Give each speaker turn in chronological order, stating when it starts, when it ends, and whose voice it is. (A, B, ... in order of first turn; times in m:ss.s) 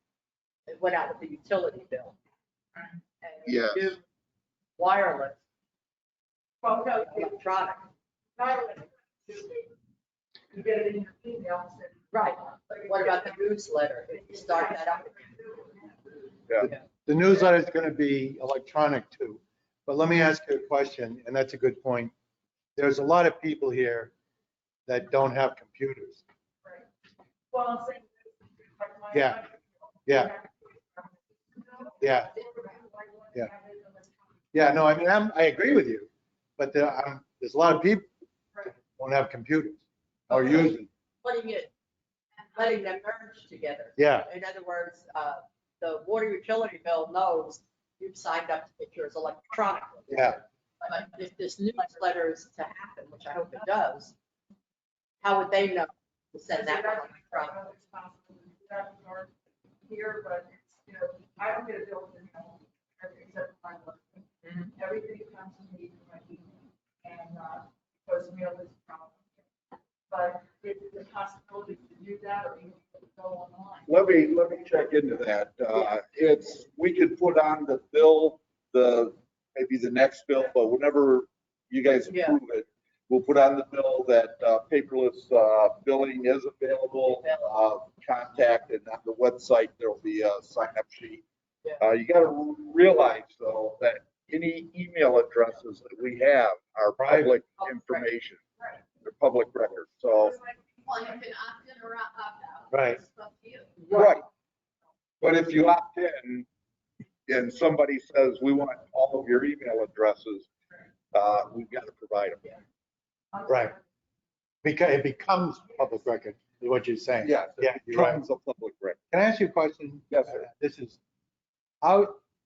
0:00.7-0:02.2 A
0:03.2-0:04.0 A
0:03.4-0:03.9 B
0:04.8-0:05.4 A
0:06.6-0:07.4 C
0:06.7-0:07.8 A
0:08.4-0:09.7 C
0:10.5-0:13.4 C
0:12.1-0:15.2 A
0:14.1-0:16.4 C
0:16.6-0:22.1 D
0:22.8-0:24.1 D
0:24.9-0:26.2 D
0:27.5-0:34.4 C
0:29.1-0:29.4 D
0:30.1-0:30.3 D
0:32.0-0:32.4 D
0:34.5-0:38.1 D
0:38.6-0:40.9 D
0:40.3-0:41.7 A
0:42.5-0:54.1 A
0:44.0-0:44.3 D
0:50.1-0:50.4 D
0:55.2-0:57.6 A
0:56.5-0:59.3 C
0:59.8-1:09.3 C
1:04.4-1:04.7 A
1:10.1-1:13.9 C
1:13.9-1:31.2 B
1:22.1-1:22.4 A
1:27.0-1:27.5 A
1:31.8-1:38.4 B
1:37.0-1:37.3 D
1:37.6-1:38.0 A
1:39.0-1:40.4 B
1:40.5-1:43.7 E
1:42.7-1:43.0 D
1:43.8-1:44.1 A
1:43.9-1:44.2 B
1:45.2-1:46.4 B
1:47.3-1:50.5 B
1:51.1-1:52.4 B
1:53.3-1:53.8 C
1:53.5-1:53.8 D
1:54.6-1:58.2 D
1:57.2-1:59.0 B
1:59.1-2:01.0 D
2:00.1-2:00.4 B
2:01.8-2:02.2 D